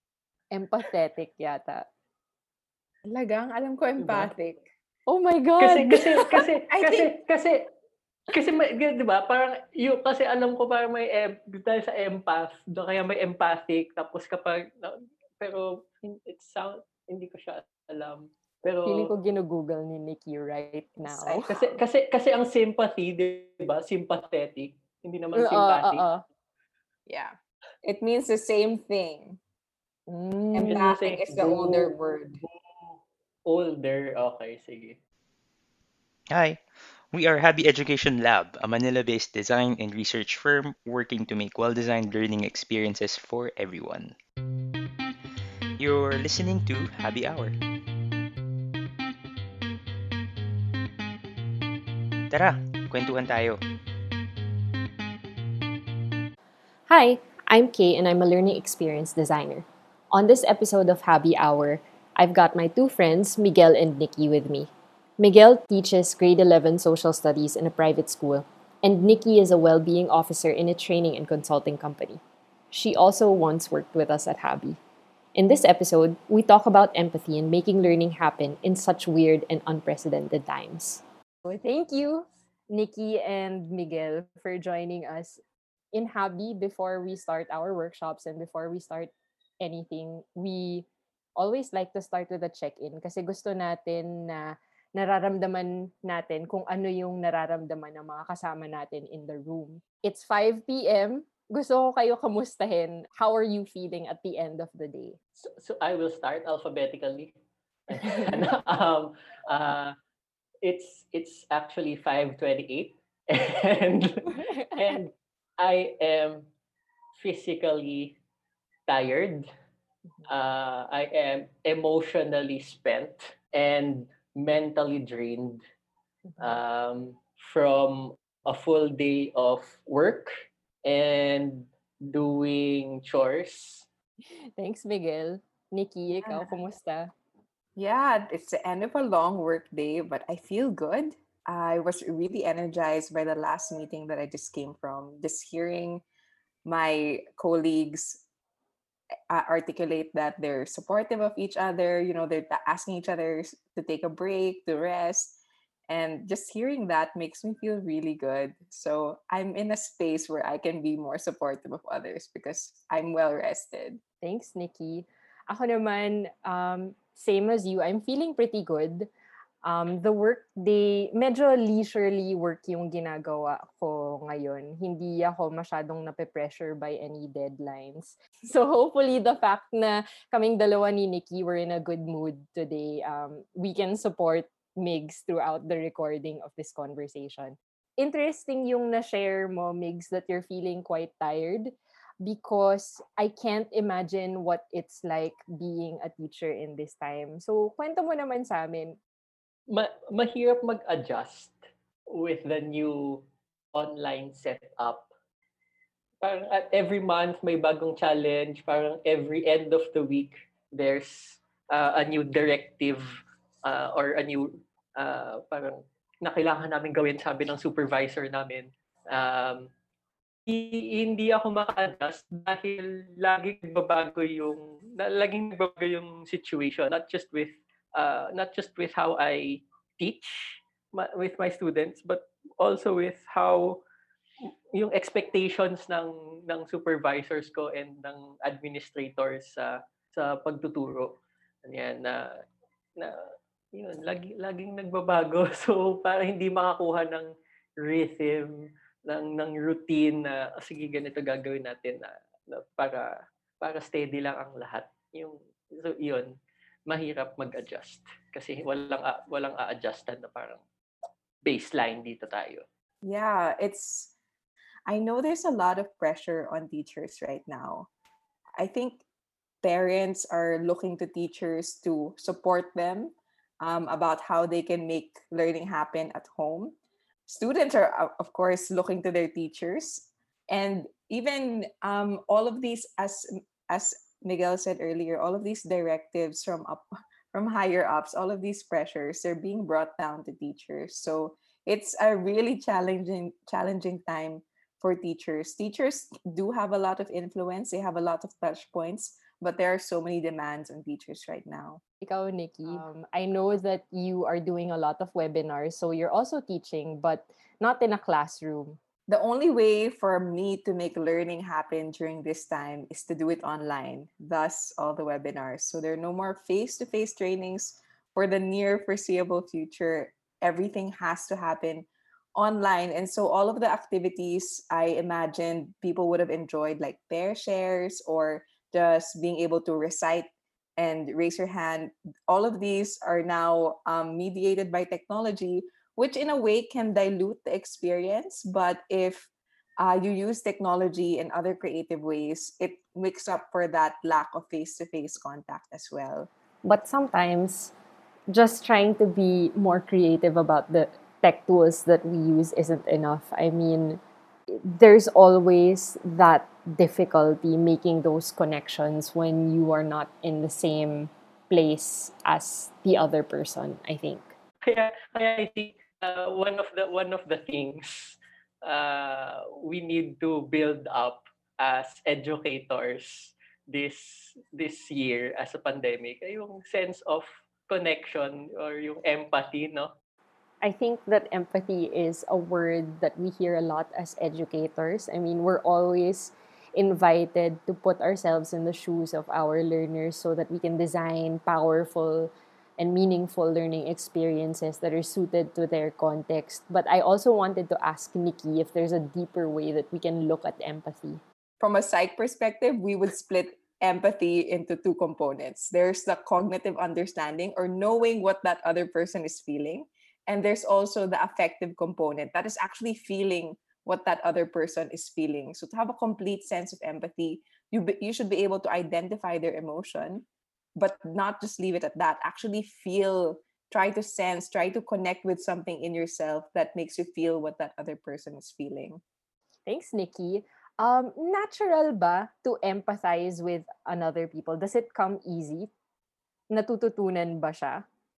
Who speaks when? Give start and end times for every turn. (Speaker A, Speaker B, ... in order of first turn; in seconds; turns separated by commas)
Speaker A: 0.5-1.9, Speaker B: 3.0-4.7, Speaker C: 4.0-4.3, Speaker A: 5.1-6.2, Speaker C: 5.6-7.7, Speaker B: 6.7-7.1, Speaker C: 8.3-19.1, Speaker A: 18.9-21.5, Speaker B: 21.1-21.8, Speaker C: 21.5-26.0, Speaker A: 25.3-26.2, Speaker B: 27.1-29.4, Speaker A: 30.1-31.9, Speaker B: 30.5-32.4, Speaker C: 30.6-31.8, Speaker C: 32.4-35.0, Speaker D: 36.3-44.1, Speaker D: 45.8-47.5, Speaker D: 52.3-53.6, Speaker A: 56.9-72.2, Speaker A: 72.7-74.8, Speaker A: 75.3-85.4, Speaker A: 85.9-90.8, Speaker A: 91.4-105.2, Speaker C: 105.4-107.3, Speaker C: 107.9-110.0, Speaker A: 108.0-108.4, Speaker C: 110.6-116.5, Speaker A: 114.3-115.0, Speaker C: 117.2-118.2, Speaker C: 118.9-119.5, Speaker C: 120.3-125.6, Speaker A: 126.3-126.5, Speaker C: 126.4-130.3, Speaker C: 130.8-133.9, Speaker A: 134.6-137.1, Speaker B: 136.2-136.5, Speaker B: 137.8-146.0, Speaker B: 146.6-148.2, Speaker B: 149.3-155.4, Speaker B: 155.9-164.0, Speaker A: 164.2-169.1, Speaker A: 169.6-199.0, Speaker C: 199.7-201.6, Speaker C: 202.1-205.1, Speaker C: 206.2-219.7, Speaker C: 220.5-233.8, Speaker C: 234.4-241.1, Speaker C: 241.6-242.4, Speaker C: 243.0-243.2, Speaker C: 243.7-256.3, Speaker C: 256.9-260.6, Speaker C: 261.4-262.6, Speaker B: 263.0-264.1, Speaker B: 264.9-267.9, Speaker B: 268.6-269.0, Speaker B: 269.6-276.8, Speaker B: 277.3-301.8, Speaker A: 302.0-308.8, Speaker B: 309.1-346.3, Speaker A: 346.6-347.7, Speaker A: 348.3-354.0, Speaker A: 354.5-364.3, Speaker C: 364.6-379.9, Speaker A: 380.6-401.2, Speaker B: 401.6-420.2, Speaker B: 420.8-429.0, Speaker A: 429.6-435.7, Speaker A: 436.5-437.8